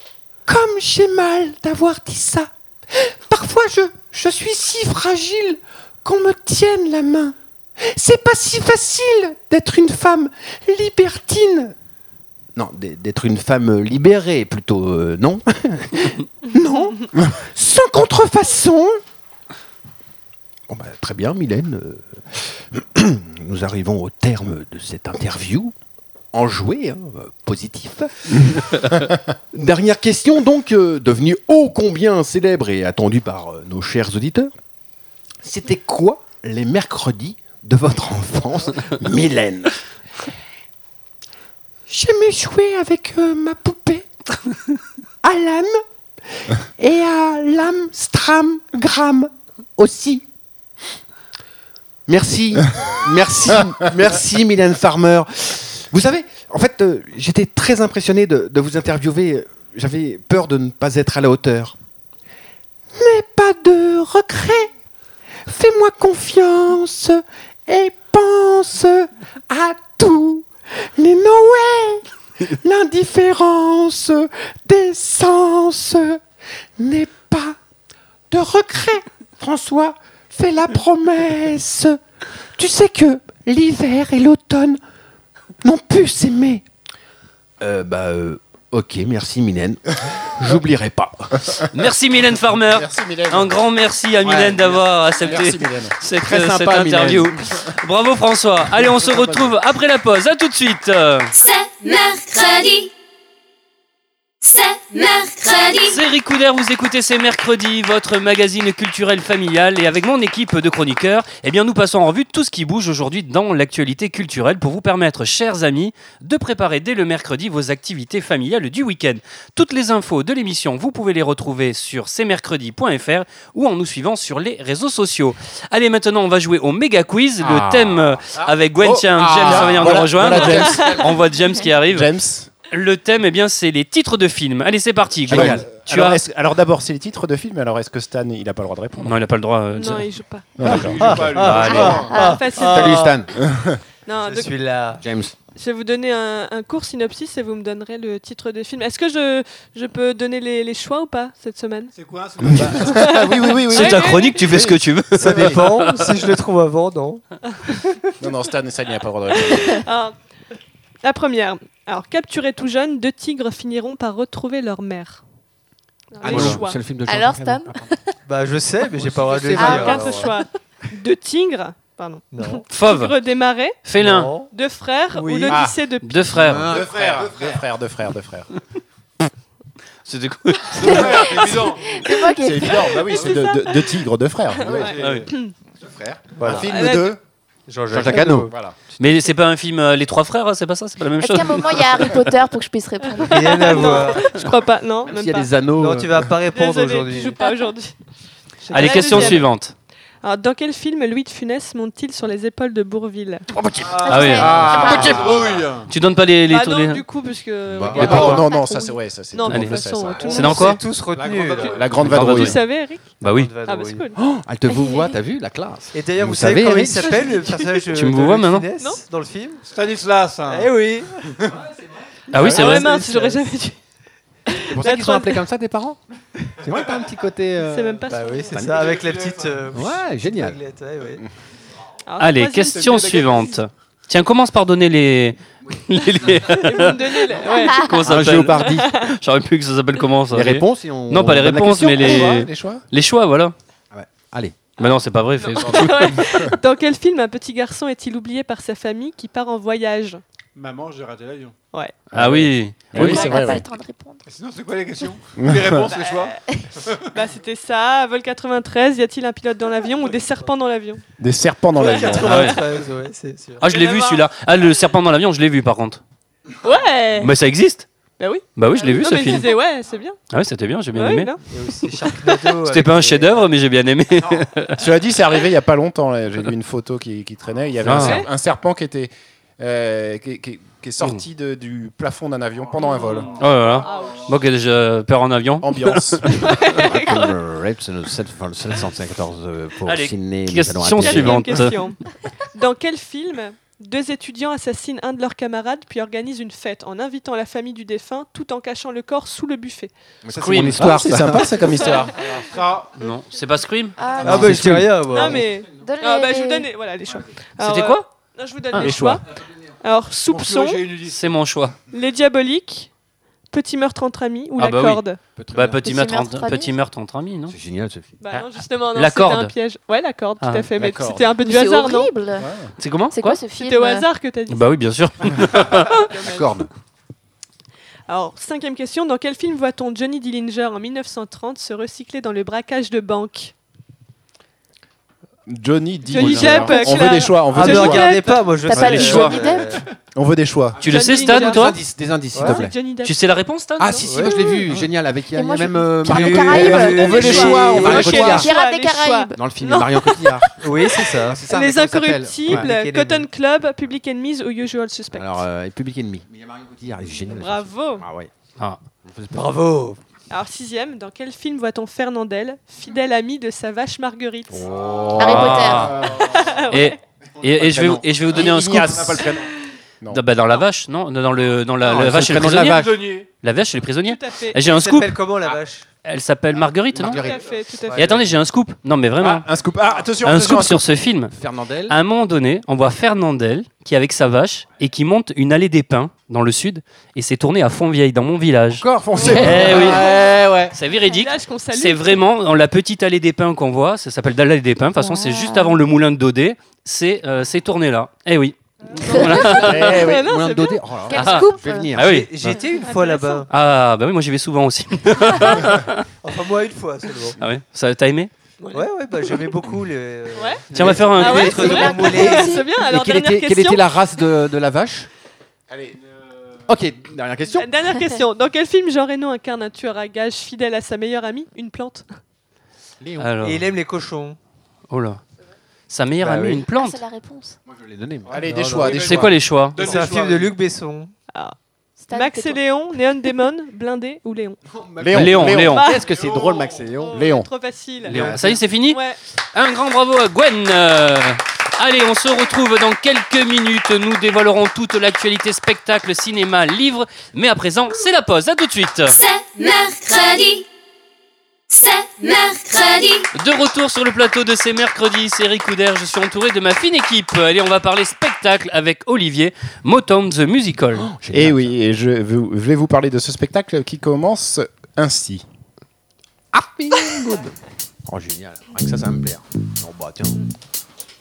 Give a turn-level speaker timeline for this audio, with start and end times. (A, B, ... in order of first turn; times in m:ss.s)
0:00.5-0:11.7 A
0:12.6-0:19.0 A
0:20.7-0:25.7 A
0:26.3-0:28.9 A
0:29.5-0:34.5 A
0:35.4-0:39.7 A
0:41.9-0:44.1 A
0:45.2-0:45.8 A
0:46.8-0:50.2 A
0:52.1-1:01.8 A
1:02.9-1:04.7 A
1:05.4-1:16.2 A
1:16.8-1:17.6 A
1:18.3-1:22.0 A
1:22.6-1:24.8 A
1:25.6-1:26.6 A
1:27.6-1:31.6 A
1:31.7-1:41.3 B
1:32.7-1:33.6 C
1:34.2-1:34.6 A
1:35.2-1:35.9 C
1:36.2-1:37.4 A
1:41.4-1:42.9 D
1:44.4-1:46.0 D
1:45.8-2:12.1 B
2:07.4-2:08.2 A
2:08.8-2:11.2 C
2:09.1-2:10.4 A
2:10.7-2:10.9 E
2:11.9-2:12.5 C
2:12.7-2:16.2 B
2:15.3-2:15.7 A
2:15.3-2:19.2 C
2:19.0-2:20.1 B
2:19.7-2:20.6 E
2:20.6-2:21.8 C
2:20.6-2:22.1 F
2:20.7-2:23.2 G
2:21.4-2:22.0 B
2:21.6-2:23.2 E
2:22.1-2:22.4 H
2:22.6-2:23.3 A
2:23.4-2:23.8 C
2:24.1-2:24.5 E
2:24.2-2:25.0 G
2:25.0-2:25.4 A
2:25.6-2:31.9 E
2:31.9-2:33.2 F
2:32.5-2:35.6 C
2:32.8-2:34.5 E
2:33.7-2:36.2 B
2:35.1-2:37.8 G
2:38.2-2:39.8 C
2:39.3-2:40.2 E
2:41.0-2:45.2 E
2:46.1-2:46.8 E
2:46.2-2:47.9 A
2:46.2-2:46.6 B
2:47.0-2:47.9 H
2:48.3-2:50.1 G
2:49.6-2:53.8 E
2:49.6-2:49.8 H
2:49.8-2:50.3 C
2:52.3-2:52.6 G
2:52.7-2:53.1 B
2:53.8-2:54.3 B
2:54.0-2:54.5 G
2:54.5-2:56.4 E
2:55.1-2:55.6 G
2:55.5-2:55.8 C
2:56.0-2:56.7 B
2:56.3-2:57.6 A
2:56.6-2:58.5 C
2:56.7-2:57.2 F
3:00.1-3:01.5 B
3:00.8-3:02.0 F
3:00.8-3:02.8 H
3:02.4-3:05.0 C
3:03.1-3:03.5 F
3:03.1-3:03.8 E
3:04.6-3:05.5 E
3:04.8-3:05.3 F
3:05.0-3:05.3 B
3:05.8-3:06.4 A
3:06.4-3:06.7 G
3:06.4-3:07.2 C
3:06.6-3:07.2 E
3:07.7-3:08.5 G
3:07.9-3:08.5 A
3:08.5-3:08.8 C
3:09.0-3:12.3 B
3:11.2-3:13.9 H
3:13.1-3:15.6 E
3:13.3-3:14.3 G
3:15.0-3:16.3 A
3:15.8-3:17.4 G
3:16.5-3:17.9 E
3:18.7-3:19.4 G
3:18.7-3:19.5 E
3:18.7-3:19.7 B
3:20.2-3:23.5 E
3:23.5-3:25.6 A
3:23.8-3:25.9 F
3:24.0-3:25.3 H
3:24.1-3:27.0 B
3:24.5-3:25.2 C
3:26.5-3:30.8 E
3:27.7-3:28.4 A
3:27.9-3:30.4 C
3:29.5-3:30.8 B
3:30.3-3:31.8 G
3:31.0-3:32.0 F
3:31.7-3:34.2 E
3:31.7-3:32.6 C
3:32.0-3:32.6 B
3:33.2-3:33.5 B
3:33.2-3:34.1 G
3:34.2-3:37.5 A
3:35.9-3:39.6 G
3:37.9-3:38.7 B
3:39.6-3:40.7 F
3:40.5-3:41.4 G
3:42.3-3:42.9 B
3:42.3-3:43.4 G
3:42.4-3:43.8 E
3:44.5-3:45.4 E
3:44.7-3:46.0 A
3:46.6-3:49.0 A
3:47.6-3:48.6 E
3:48.1-3:51.2 G
3:48.9-3:49.6 F
3:49.7-3:50.6 A
3:52.1-3:53.3 E
3:52.2-4:03.6 B
3:52.8-3:53.5 F
3:56.5-3:57.9 E
3:57.7-3:58.0 H
3:58.0-3:58.9 A
3:58.6-3:59.2 E
4:00.3-4:02.3 A
4:01.9-4:02.8 C
4:03.9-4:04.8 A
4:04.8-4:06.2 B
4:05.6-4:10.2 E
4:05.6-4:06.6 C
4:10.6-4:11.6 F
4:12.1-4:13.3 B
4:12.1-4:13.6 C
4:12.9-4:14.2 H
4:14.3-4:16.4 F
4:15.4-4:15.8 C
4:15.9-4:16.4 E
4:17.1-4:21.0 E
4:21.2-4:22.6 C
4:21.8-4:23.6 G
4:21.9-4:22.1 E
4:22.2-4:22.6 B
4:23.6-4:26.0 B
4:23.6-4:24.3 E
4:26.6-4:27.4 E
4:27.2-4:27.9 B
4:28.2-4:30.2 E
4:28.6-4:29.5 B
4:30.3-4:31.3 B
4:30.9-4:32.3 E
4:31.5-4:33.4 G
4:32.6-4:34.8 B
4:34.8-4:43.3 C
4:37.8-4:38.2 B
4:37.9-4:38.3 E
4:43.3-4:46.8 B
4:43.8-4:44.4 E
4:45.6-4:46.5 C
4:46.4-4:47.4 E
4:46.7-4:51.6 A
4:49.8-4:51.8 B
4:51.0-4:52.0 E
4:52.5-4:59.9 E
5:00.2-5:01.6 A
5:00.4-5:01.2 B
5:00.7-5:02.2 C
5:01.8-5:02.0 E
5:02.2-5:03.0 F
5:03.0-5:04.9 B
5:04.0-5:04.8 H
5:04.2-5:05.4 G
5:05.1-5:09.2 E
5:05.8-5:06.7 H
5:07.6-5:08.0 B
5:08.7-5:09.0 B
5:08.8-5:09.2 C
5:09.8-5:10.9 E
5:10.3-5:11.4 F
5:11.0-5:11.8 B
5:11.9-5:12.9 E
5:13.5-5:15.2 E
5:14.6-5:17.5 B
5:15.4-5:15.8 A
5:15.8-5:16.7 H
5:17.5-5:18.1 A
5:18.2-5:22.1 E
5:19.0-5:19.5 B
5:20.4-5:20.7 B
5:20.8-5:21.3 C
5:21.4-5:22.5 H
5:22.4-5:22.7 C
5:22.8-5:23.4 B
5:23.1-5:24.1 H
5:23.5-5:24.8 E
5:24.5-5:26.1 B
5:25.5-5:26.7 A
5:25.9-5:26.6 E
5:28.1-5:33.5 E
5:35.5-5:38.1 C
5:36.1-5:39.3 E
5:36.2-5:36.7 A
5:37.5-5:39.8 G
5:38.7-5:39.8 H
5:38.8-5:39.4 B
5:40.1-5:40.8 C
5:40.8-5:41.8 B
5:40.9-5:41.8 E
5:41.0-5:42.8 A
5:42.3-5:42.6 G
5:42.4-5:43.2 E
5:43.0-5:44.0 B
5:43.8-5:48.5 A
5:43.8-5:44.5 E
5:44.0-5:44.4 G
5:45.3-5:49.4 H
5:46.0-5:48.3 G
5:46.5-5:48.4 C
5:47.0-5:55.5 E
5:49.4-5:50.5 A
5:50.6-5:51.4 G
5:51.2-5:52.7 A
5:52.5-5:53.2 G
5:55.1-5:58.3 A
5:57.2-5:58.1 E
5:59.0-5:59.4 A
5:59.3-6:00.0 G
6:00.3-6:04.7 E
6:04.5-6:06.0 A
6:05.2-6:06.0 H
6:05.2-6:06.2 B
6:06.1-6:07.0 E
6:06.7-6:09.3 B
6:07.6-6:08.0 A
6:08.3-6:09.4 C
6:10.1-6:15.2 B
6:11.8-6:13.0 A
6:12.6-6:13.3 F
6:14.0-6:14.6 E
6:14.6-6:15.9 G
6:16.0-6:17.3 B
6:16.9-6:18.3 A
6:17.1-6:18.1 E
6:18.0-6:19.5 B
6:19.2-6:20.8 C
6:20.2-6:21.3 B
6:21.3-6:22.0 A
6:21.9-6:30.1 B
6:28.7-6:30.8 A
6:29.1-6:30.3 E
6:30.7-6:40.0 B
6:31.0-6:32.2 E
6:35.0-6:35.8 H
6:39.0-6:41.4 E
6:39.1-6:39.5 H
6:39.5-6:42.2 A
6:39.6-6:40.2 C
6:41.1-6:41.9 H
6:41.1-6:42.6 B
6:42.0-6:43.5 G
6:42.8-6:43.5 E
6:43.5-6:46.0 B
6:46.2-6:47.4 G
6:47.4-6:48.3 B
6:48.6-6:48.9 E
6:48.7-6:52.5 G
6:50.4-6:53.8 E
6:50.7-6:51.9 B
6:51.4-6:52.7 H
6:52.8-6:55.1 A
6:55.7-6:56.0 C
6:56.7-6:57.7 A
6:57.5-7:02.0 E
7:03.0-7:03.3 A
7:03.2-7:03.6 B
7:03.4-7:04.4 G
7:04.9-7:05.2 B
7:05.9-7:07.0 B
7:06.2-7:06.6 G
7:06.7-7:07.6 H
7:07.7-7:08.4 A
7:08.3-7:09.3 C
7:08.3-7:10.5 F
7:08.4-7:09.0 G
7:08.9-7:09.9 B
7:09.8-7:11.1 G
7:12.0-7:12.6 H
7:12.1-7:14.6 E
7:14.7-7:17.2 A
7:15.0-7:15.8 C
7:15.1-7:15.9 B
7:15.7-7:16.1 E
7:16.1-7:16.9 F
7:17.0-7:19.2 E
7:17.1-7:17.5 C
7:18.0-7:19.0 B
7:18.1-7:18.6 A
7:19.5-7:29.2 B
7:29.1-7:30.6 D
7:31.7-7:33.3 D
7:33.4-7:41.0 B
7:41.0-7:41.7 A
7:41.3-7:45.4 C
7:46.5-7:47.5 A
7:48.1-7:50.5 A